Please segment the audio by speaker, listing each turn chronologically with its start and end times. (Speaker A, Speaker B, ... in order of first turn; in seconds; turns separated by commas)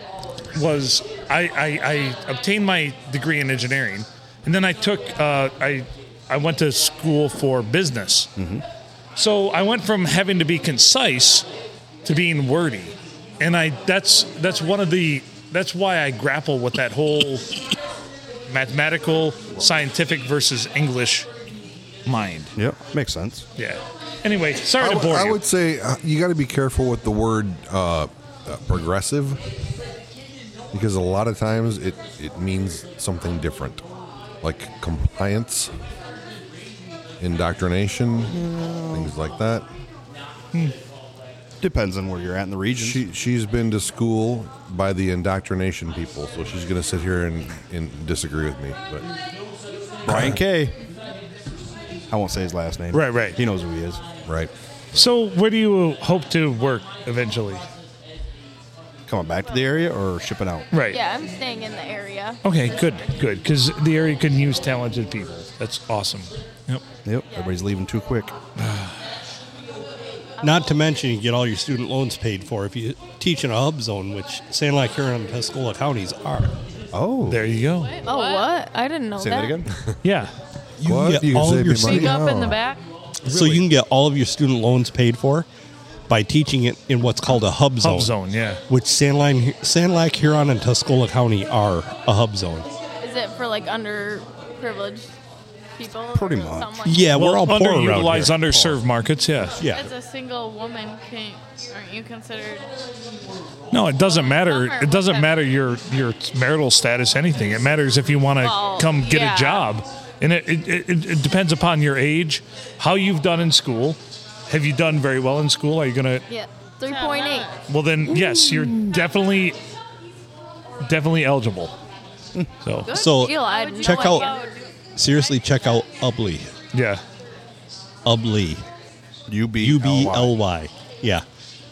Speaker A: 0.5-8.3, Speaker B: 8.4-8.6, Speaker A: 9.2-11.4, Speaker A: 12.0-17.6, Speaker A: 18.5-21.3, Speaker A: 22.1-22.5, Speaker B: 22.5-23.4, Speaker A: 23.6-25.4, Speaker C: 24.8-29.4, Speaker C: 30.7-33.8, Speaker C: 34.4-35.7, Speaker C: 37.2-39.6, Speaker B: 38.3-39.1, Speaker B: 41.6-43.0, Speaker C: 42.8-49.0, Speaker B: 50.0-50.8, Speaker C: 50.1-50.4, Speaker B: 52.1-54.0, Speaker A: 52.9-53.4, Speaker C: 54.2-54.5, Speaker A: 54.9-57.6, Speaker B: 59.1-60.7, Speaker A: 60.7-61.0, Speaker D: 60.9-63.2, Speaker A: 62.4-66.8, Speaker B: 67.0-68.3, Speaker A: 68.6-69.0, Speaker E: 70.4-76.6, Speaker B: 76.9-77.4, Speaker A: 77.3-78.0, Speaker F: 77.9-78.5, Speaker D: 78.0-79.7, Speaker B: 79.2-79.7, Speaker A: 80.0-80.3, Speaker E: 80.8-82.2, Speaker C: 80.8-82.5, Speaker F: 81.8-82.8, Speaker E: 83.2-85.5, Speaker E: 86.1-88.1, Speaker A: 87.8-88.6, Speaker E: 88.7-92.7, Speaker D: 93.0-95.1, Speaker D: 95.8-97.2, Speaker B: 96.1-96.8, Speaker E: 96.8-98.7, Speaker A: 97.1-99.6, Speaker E: 99.6-99.9, Speaker F: 99.7-102.7, Speaker A: 103.7-116.2, Speaker F: 104.0-105.3, Speaker F: 108.4-109.7, Speaker D: 116.3-117.5, Speaker F: 116.8-117.5, Speaker A: 117.7-119.6, Speaker A: 120.8-121.7, Speaker A: 122.6-122.9, Speaker D: 122.9-124.5, Speaker F: 122.9-125.3, Speaker E: 122.9-124.3, Speaker E: 125.0-126.5, Speaker A: 126.7-127.0, Speaker E: 128.0-128.6, Speaker B: 129.3-130.4, Speaker E: 129.6-131.2